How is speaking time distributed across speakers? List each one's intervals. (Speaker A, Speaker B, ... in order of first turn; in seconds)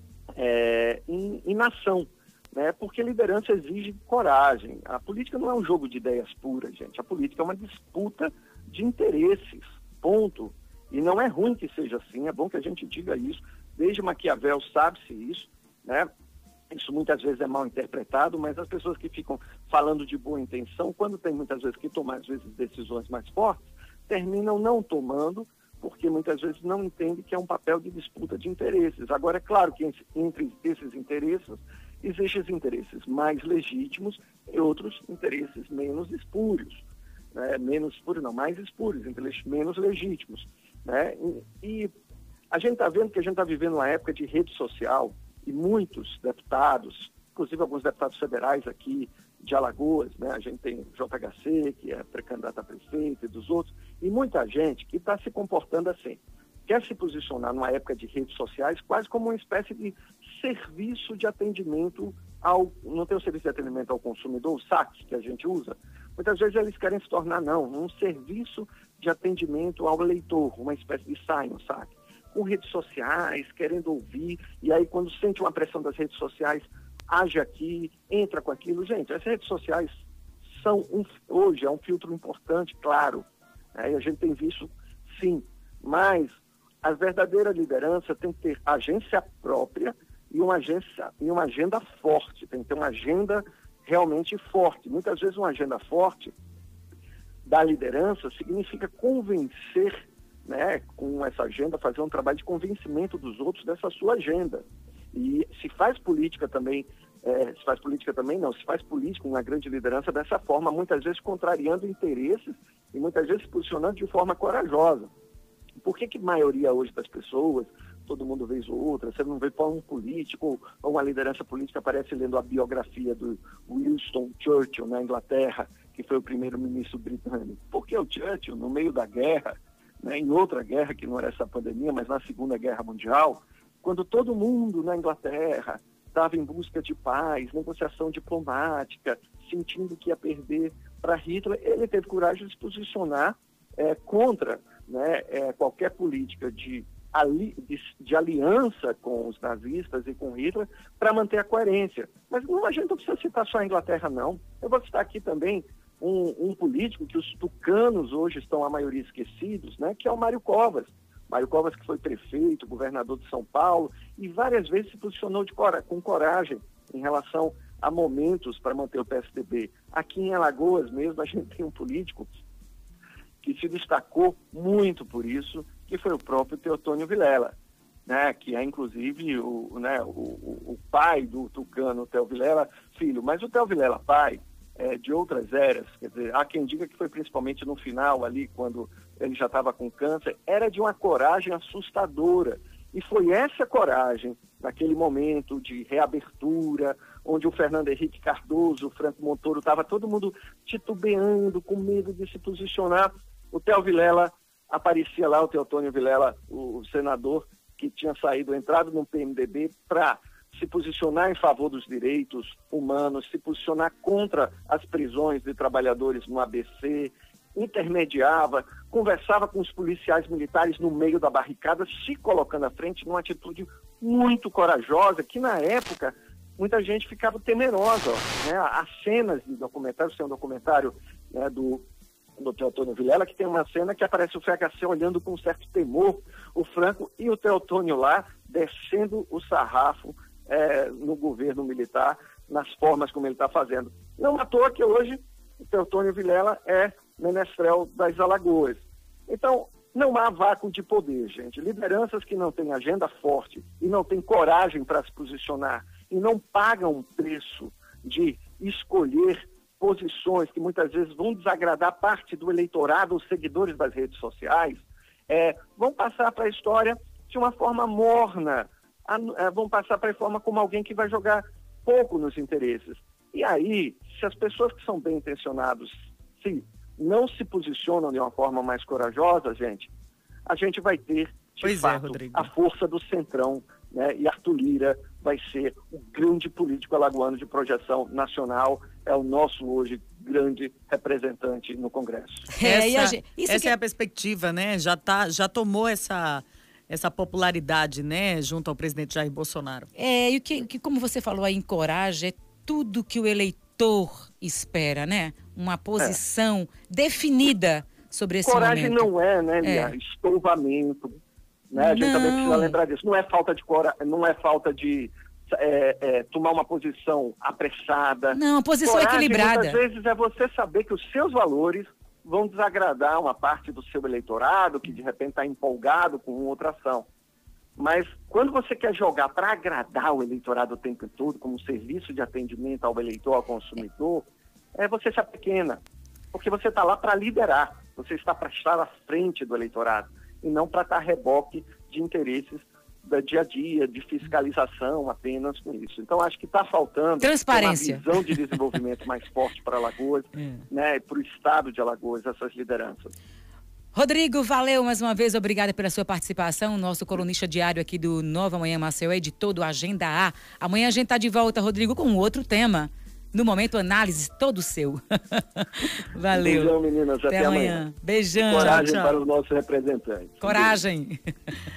Speaker A: 0.3-16.1, 16.7-41.9, 42.5-79.9, 80.4-96.3, 97.4-115.1, 115.8-172.3, 173.4-177.5, 178.1-231.8, 232.4-279.9, 280.4-292.5, 308.4-311.1, 311.7-327.1, 327.8-335.8, 336.3-353.1, 366.3-367.8, 368.4-370.8
Speaker B: 281.6-282.5, 292.6-299.9, 368.5-369.2
Speaker C: 292.5-293.7, 299.9-309.1, 309.6-309.9, 311.7-312.8, 318.3-319.8, 347.2-348.6, 353.9-366.8, 367.3-368.9, 370.4-371.6